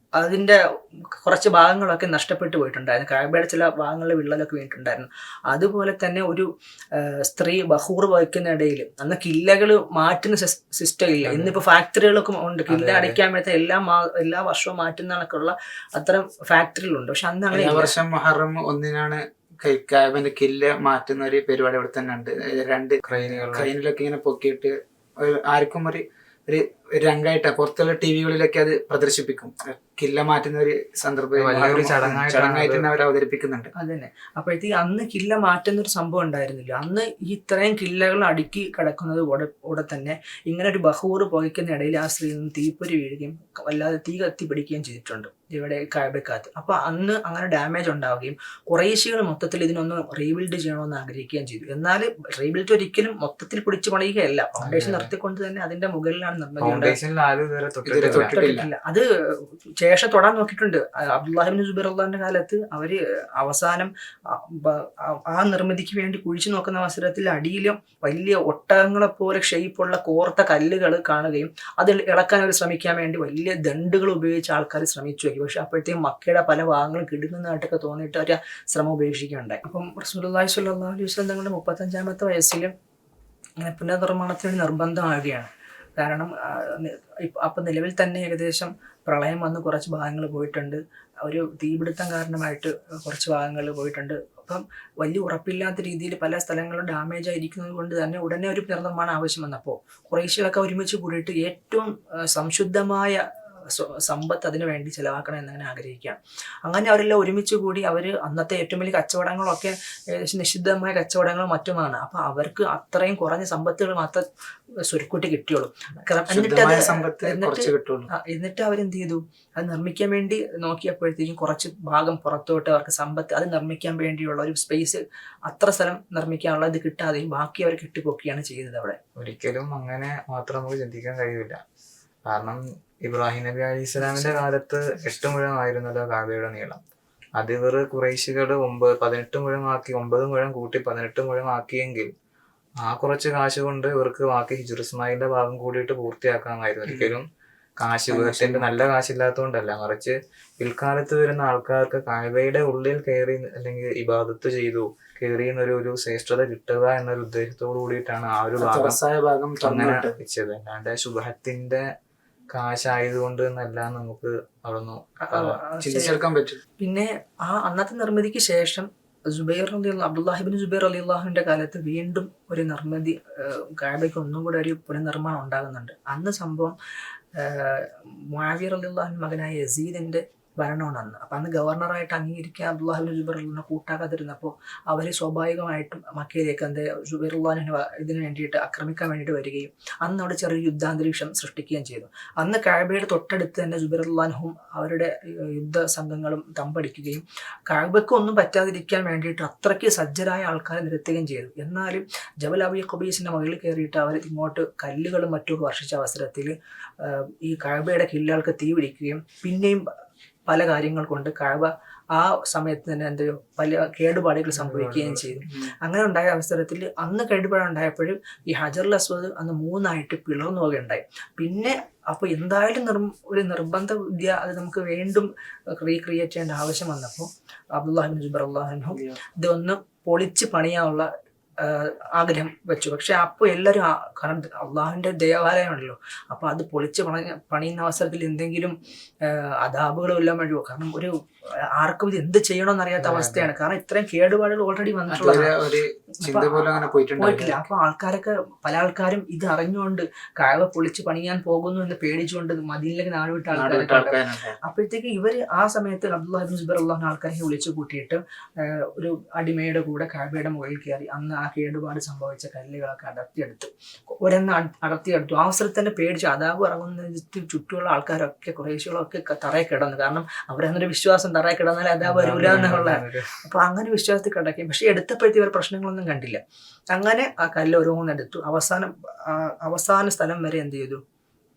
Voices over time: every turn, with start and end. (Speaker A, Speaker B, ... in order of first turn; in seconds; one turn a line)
Speaker A: 0.2-17.9
Speaker B: 11.3-11.5
Speaker B: 12.7-13.2
Speaker C: 17.5-33.7
Speaker B: 23.1-23.7
Speaker B: 31.4-32.9
Speaker A: 33.8-57.0
Speaker B: 54.6-55.1
Speaker B: 56.6-58.3
Speaker C: 57.9-58.7
Speaker A: 58.1-82.7
Speaker A: 83.6-114.2
Speaker A: 114.9-129.0
Speaker C: 116.3-118.1
Speaker B: 129.2-131.6
Speaker B: 132.3-136.8
Speaker C: 134.0-134.4
Speaker B: 137.4-142.1
Speaker B: 142.8-147.3
Speaker C: 146.9-147.1
Speaker B: 147.8-159.0
Speaker C: 148.1-148.7
Speaker C: 158.6-160.1
Speaker B: 159.6-161.8
Speaker B: 162.5-165.6
Speaker A: 165.2-166.2
Speaker C: 165.8-166.6
Speaker A: 166.8-176.8
Speaker A: 177.4-209.8
Speaker A: 210.5-241.1
Speaker B: 214.6-215.4
Speaker C: 215.5-215.7
Speaker C: 228.9-229.2
Speaker A: 241.8-245.5
Speaker B: 243.0-243.5
Speaker C: 245.1-247.6
Speaker A: 246.2-281.0
Speaker C: 253.5-254.6
Speaker B: 272.0-273.4
Speaker C: 272.5-272.7